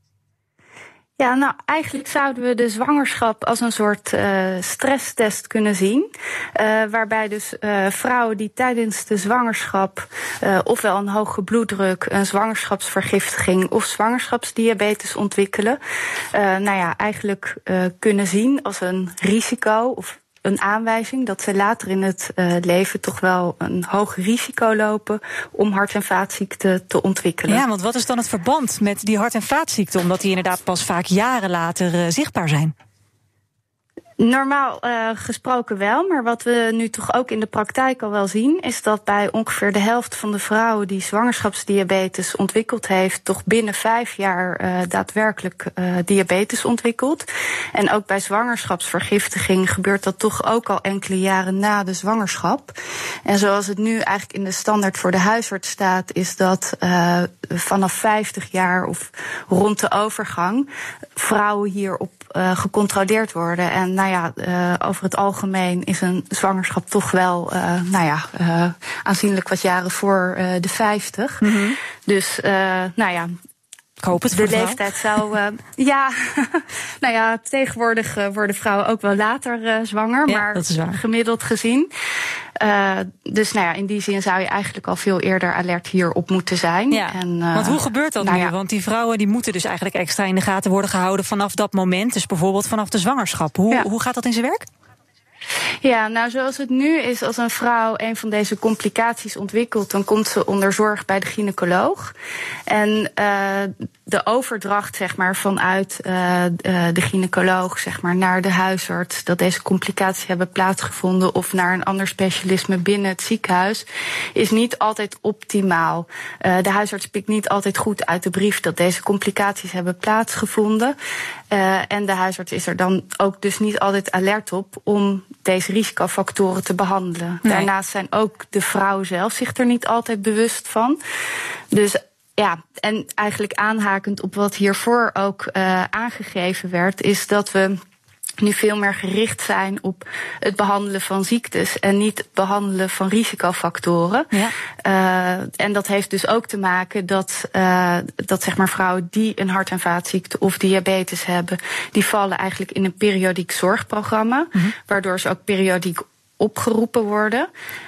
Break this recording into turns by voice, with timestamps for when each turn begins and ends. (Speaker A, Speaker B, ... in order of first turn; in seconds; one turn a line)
Speaker A: 1.2-15.8
Speaker A: 16.3-27.6
Speaker B: 27.5-32.7
Speaker A: 34.2-52.7
Speaker A: 53.3-71.5
Speaker B: 71.4-71.8
Speaker A: 72.1-73.3
Speaker B: 74.0-74.9
Speaker A: 74.3-81.9
Speaker B: 80.3-81.0
Speaker A: 82.6-88.5
Speaker B: 86.9-94.7
Speaker A: 95.8-102.1
Speaker A: 102.7-121.0
Speaker A: 121.5-131.0
Speaker A: 131.7-137.8
Speaker A: 138.4-144.3
Speaker A: 144.8-157.5